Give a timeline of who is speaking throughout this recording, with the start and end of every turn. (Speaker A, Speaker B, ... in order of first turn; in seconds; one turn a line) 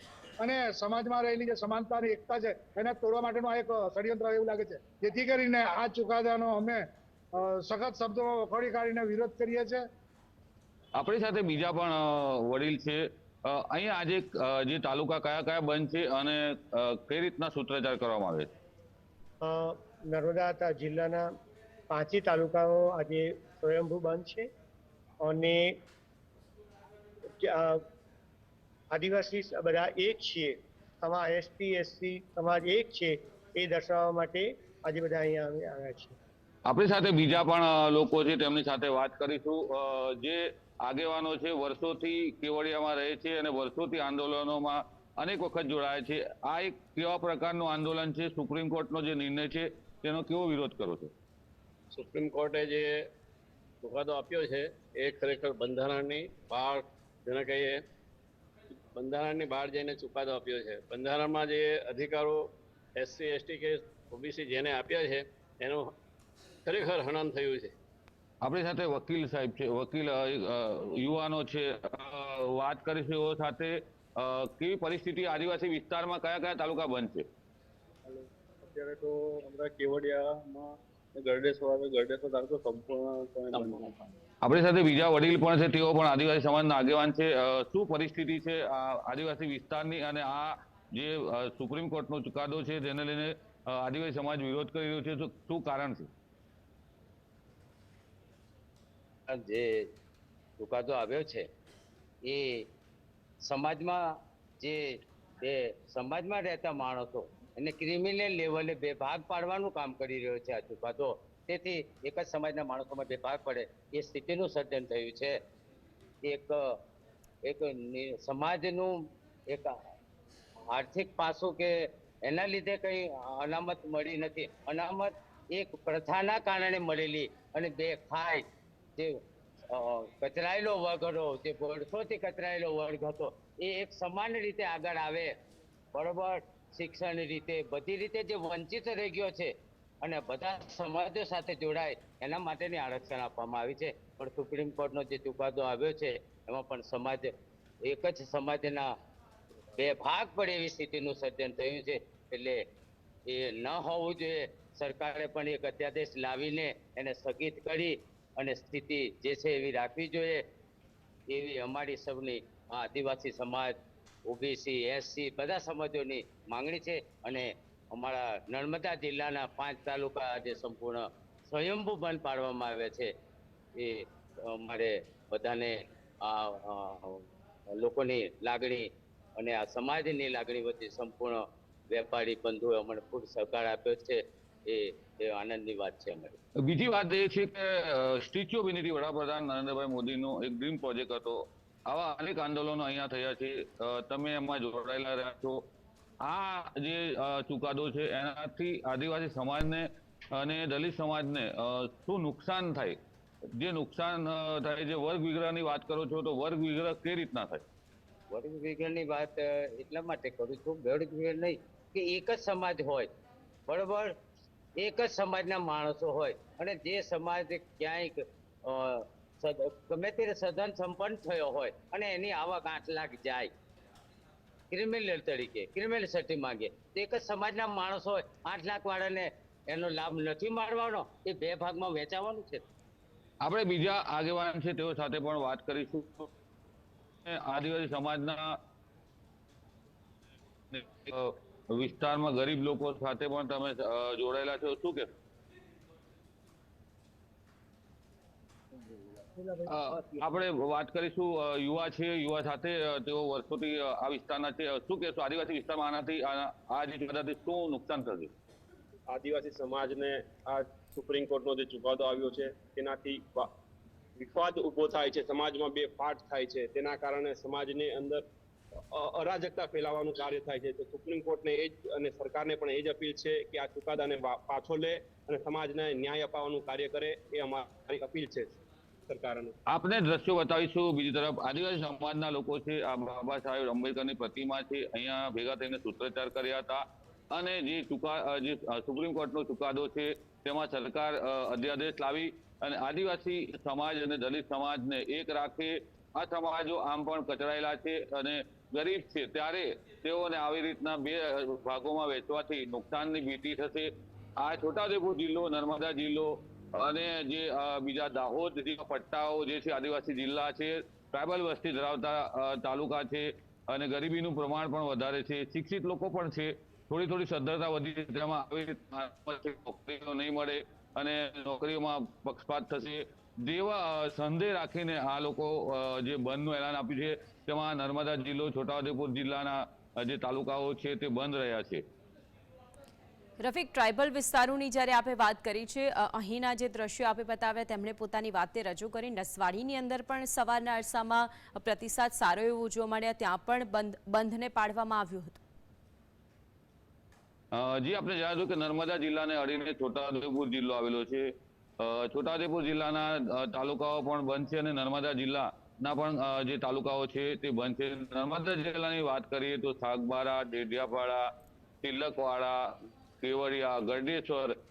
Speaker A: 0.4-6.8
Speaker A: 7.3-9.8
Speaker B: 10.9-18.5
Speaker C: 19.4-21.3
Speaker C: 21.9-24.5
Speaker C: 25.2-25.8
Speaker C: 27.4-27.8
Speaker C: 28.9-36.1
Speaker B: 36.7-51.1
Speaker D: 51.9-53.0
Speaker D: 53.8-57.8
Speaker D: 58.9-65.9
Speaker D: 66.6-67.7
Speaker B: 68.4-77.2
Speaker D: 78.1-80.7
Speaker D: 81.2-83.2
Speaker B: 84.4-96.1
Speaker E: 99.3-99.9
Speaker E: 100.6-101.5
Speaker E: 102.2-102.7
Speaker E: 103.4-115.4
Speaker E: 116.2-116.8
Speaker E: 117.4-119.8
Speaker E: 120.7-135.4
Speaker E: 135.9-148.9
Speaker E: 149.7-152.7
Speaker E: 153.3-160.5
Speaker E: 161.3-173.1
Speaker E: 173.8-186.4
Speaker B: 186.6-195.7
Speaker B: 196.2-203.0
Speaker B: 203.6-207.6
Speaker E: 208.3-213.1
Speaker E: 213.7-214.2
Speaker E: 214.8-223.5
Speaker E: 224.7-232.7
Speaker B: 233.4-236.3
Speaker B: 237.2-238.5
Speaker B: 240.7-245.1
Speaker B: 249.7-258.3
Speaker F: 259.1-263.5
Speaker F: 264.2-268.2
Speaker F: 268.9-278.5
Speaker F: 279.1-279.5
Speaker B: 279.7-331.8
Speaker G: 333.4-345.4
Speaker B: 347.5-361.2
Speaker B: 361.8-364.5